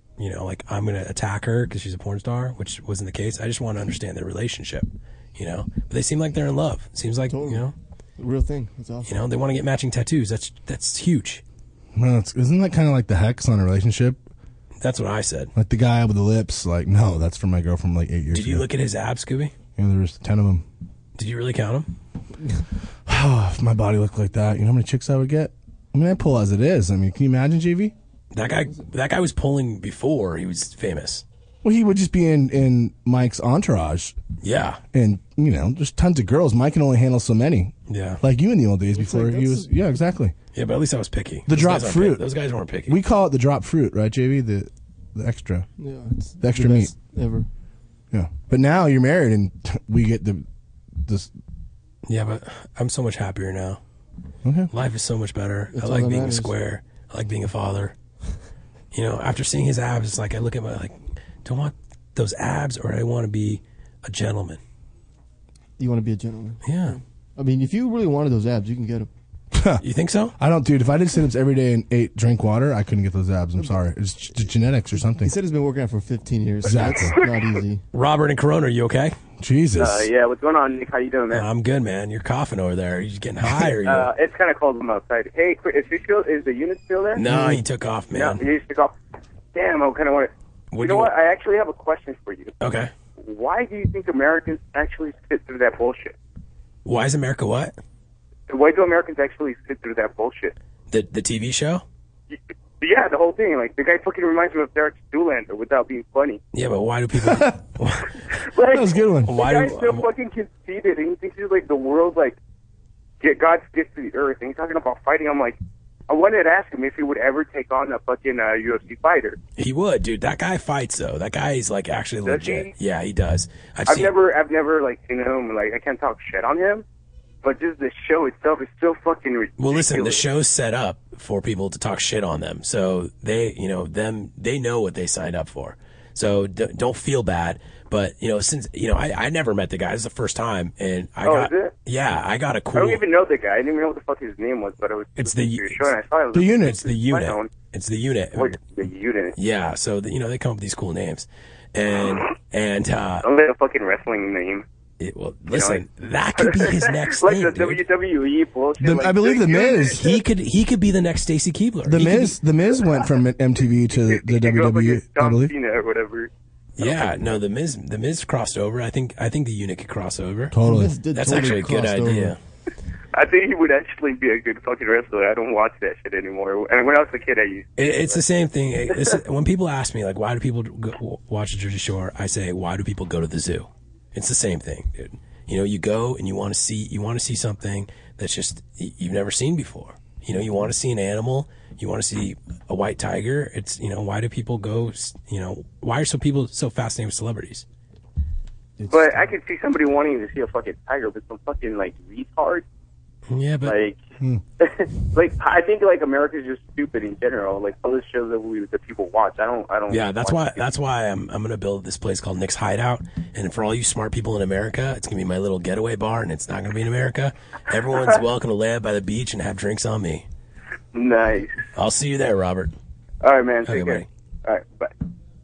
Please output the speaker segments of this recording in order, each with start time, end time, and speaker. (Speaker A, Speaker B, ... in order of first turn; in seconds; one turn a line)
Speaker A: 0.2-7.7
Speaker B: 7.3-9.1
Speaker A: 9.0-11.4
Speaker C: 11.9-14.2
Speaker A: 14.8-15.5
Speaker C: 15.5-18.6
Speaker A: 18.3-19.5
Speaker C: 19.8-20.6
Speaker A: 21.2-21.9
Speaker C: 23.1-27.9
Speaker A: 28.3-31.2
Speaker C: 31.6-34.1
Speaker A: 34.4-34.8
Speaker C: 34.9-40.3
Speaker A: 37.9-38.2
Speaker B: 38.9-39.9
Speaker A: 40.5-43.0
Speaker C: 41.5-42.2
Speaker C: 42.9-45.7
Speaker B: 45.8-47.5
Speaker C: 46.4-46.9
Speaker C: 48.1-50.4
Speaker C: 51.0-51.3
Speaker A: 52.1-53.8
Speaker A: 54.7-58.0
Speaker B: 55.7-56.5
Speaker A: 58.9-64.6
Speaker B: 65.8-69.1
Speaker A: 66.6-67.0
Speaker C: 69.5-69.8
Speaker A: 69.8-70.3
Speaker C: 70.4-75.3
Speaker B: 73.6-73.8
Speaker B: 74.3-77.8
Speaker C: 76.6-77.1
Speaker A: 77.9-79.2
Speaker C: 79.4-80.1
Speaker D: 79.8-81.5
Speaker A: 81.3-84.1
Speaker D: 83.8-87.2
Speaker A: 87.1-88.4
Speaker B: 87.2-87.6
Speaker D: 88.1-88.9
Speaker D: 89.5-92.5
Speaker A: 90.7-91.1
Speaker A: 92.6-92.9
Speaker D: 93.2-96.1
Speaker A: 96.8-97.7
Speaker D: 98.5-100.5
Speaker A: 100.9-101.8
Speaker D: 102.3-106.4
Speaker A: 106.5-108.1
Speaker D: 108.5-112.4
Speaker C: 108.7-109.4
Speaker A: 109.2-110.1
Speaker D: 113.2-115.6
Speaker D: 116.1-119.4
Speaker A: 119.6-124.1
Speaker D: 122.2-122.7
Speaker D: 123.9-126.8
Speaker D: 127.4-130.2
Speaker A: 129.6-143.0
Speaker D: 141.2-141.7
Speaker D: 142.7-147.5
Speaker A: 145.2-145.9
Speaker C: 146.3-146.9
Speaker A: 146.6-148.6
Speaker D: 148.3-149.3
Speaker A: 149.3-153.3
Speaker D: 153.2-154.6
Speaker A: 155.0-157.8
Speaker D: 155.5-155.8
Speaker D: 156.4-160.0
Speaker C: 158.8-160.2
Speaker A: 159.9-162.4
Speaker C: 161.8-165.5
Speaker D: 163.9-166.3
Speaker A: 166.8-170.6
Speaker C: 170.5-170.9
Speaker B: 170.6-172.3
Speaker A: 171.1-172.4
Speaker D: 173.1-178.2
Speaker A: 177.8-197.7
Speaker B: 198.8-199.1
Speaker D: 198.9-202.6
Speaker A: 203.3-203.8
Speaker D: 203.6-204.0
Speaker D: 204.6-210.6
Speaker A: 209.9-220.2
Speaker D: 220.9-221.5
Speaker A: 221.8-222.7
Speaker D: 223.2-224.9
Speaker A: 223.6-224.1